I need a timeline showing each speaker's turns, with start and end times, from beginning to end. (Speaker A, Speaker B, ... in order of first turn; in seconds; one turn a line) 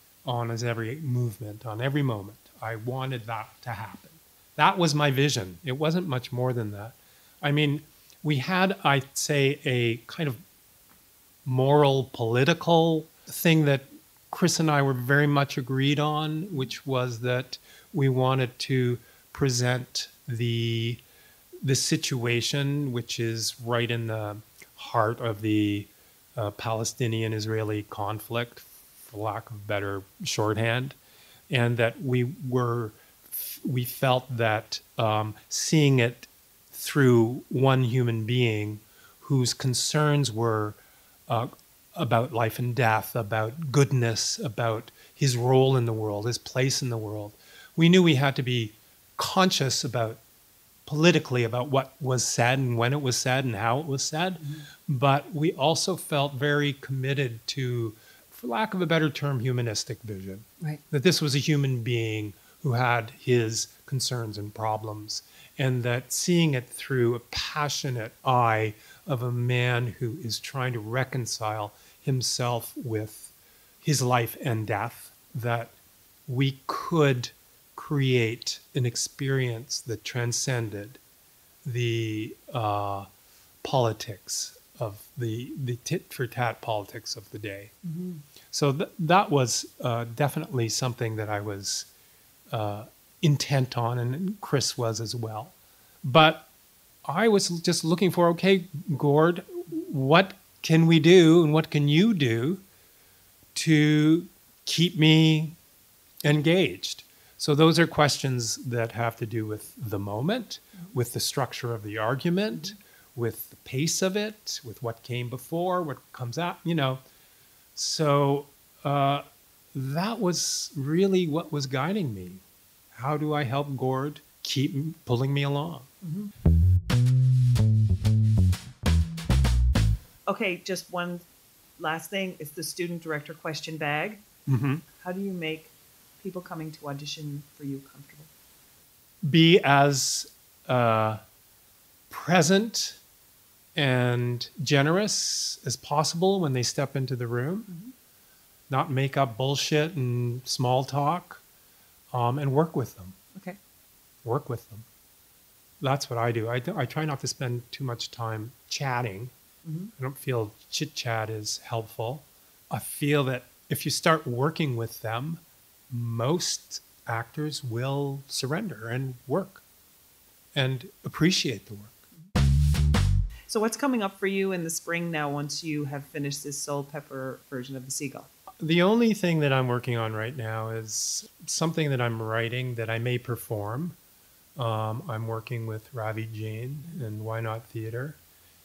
Speaker A: 0.3-10.4
Speaker A: 11.4-21.0
Speaker A: 21.6-31.0
Speaker A: 31.5-50.2
Speaker A: 50.9-75.7
Speaker B: 54.4-54.7
Speaker A: 76.3-81.0
Speaker A: 81.7-83.1
Speaker A: 83.6-87.7
Speaker B: 87.8-88.2
Speaker A: 88.5-91.9
Speaker A: 92.5-96.5
Speaker A: 97.0-102.6
Speaker A: 103.5-105.6
Speaker A: 106.2-117.0
Speaker A: 117.8-125.9
Speaker B: 126.0-126.3
Speaker B: 130.3-131.3
Speaker B: 131.8-134.2
Speaker A: 134.5-134.8
Speaker B: 135.0-138.3
Speaker A: 139.2-141.2
Speaker A: 142.1-143.0
Speaker A: 143.8-147.7
Speaker A: 148.7-151.4
Speaker A: 152.1-153.2
Speaker A: 154.2-154.9
Speaker A: 155.8-159.3
Speaker B: 159.7-159.9
Speaker A: 160.0-169.6
Speaker A: 170.6-172.0
Speaker B: 173.5-178.3
Speaker A: 178.6-184.0
Speaker A: 184.6-188.2